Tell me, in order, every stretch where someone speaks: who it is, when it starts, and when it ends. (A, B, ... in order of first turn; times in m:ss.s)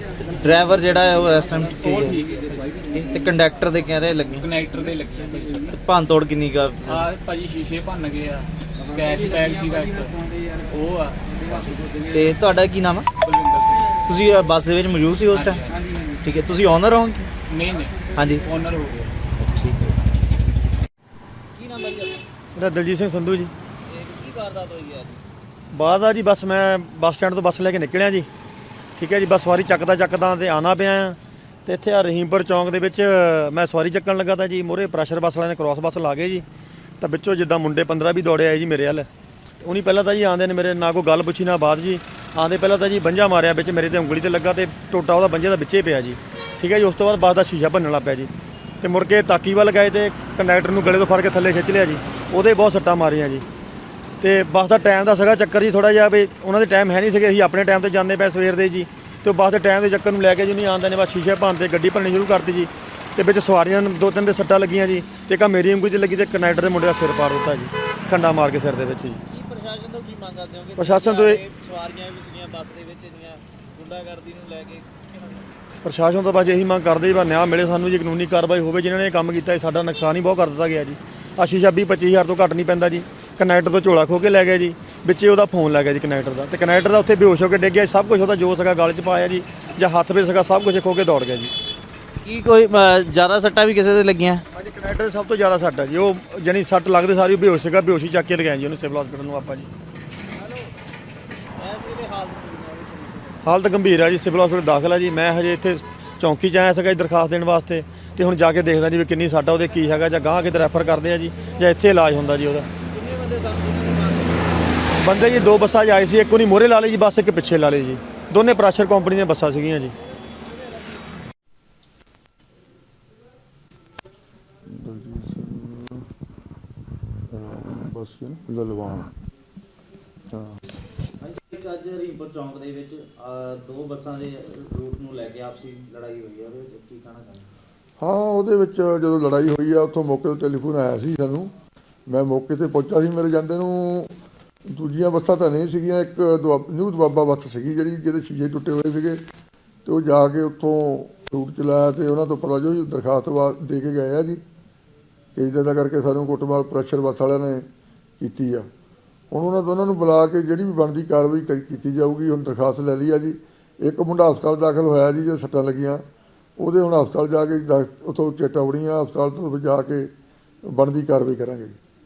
0:00.2-0:02.2 A
0:01.8-0:02.7 B
0:02.9-0:04.4 A
0:04.4-0:05.8 B
0:05.7-0:07.0 A
0:06.8-0:11.8 B
0:12.1-0:13.1 A
0:13.2-0:14.0 B
0:14.0-0:15.6 A
0:15.3-0:15.8 B
0:16.2-0:17.3 A
0:17.5-0:19.1 B
0:18.1-0:18.4 A
0:19.4-0:19.9 A
0:21.5-0:22.3 A
0:22.5-0:23.5 C
0:23.9-0:25.2 A
0:25.7-0:28.3 C
0:29.0-0:36.4 C
0:37.0-0:39.1 C
0:39.6-0:48.3 C
0:48.8-0:53.4 C
0:54.2-1:09.2 C
1:09.3-1:15.5 A
1:10.8-1:11.4 C
1:15.8-1:31.5 C
1:32.2-1:34.4 A
1:34.5-1:39.7 C
1:40.3-1:40.7 A
1:41.6-1:43.5 A
1:43.4-1:52.7 C
1:52.9-1:54.6 A
1:55.0-1:59.9 C
2:04.7-2:06.0 D
2:07.3-2:09.1 D
2:10.3-2:10.6 D
2:11.2-2:17.5 A
2:18.0-2:21.5 D
2:22.1-2:24.1 D
2:24.6-2:29.2 D
2:29.8-2:34.4 D
2:35.3-2:37.7 D
2:38.2-2:38.7 D
2:39.3-2:46.0 D
2:46.6-2:50.1 D
2:50.6-2:51.8 D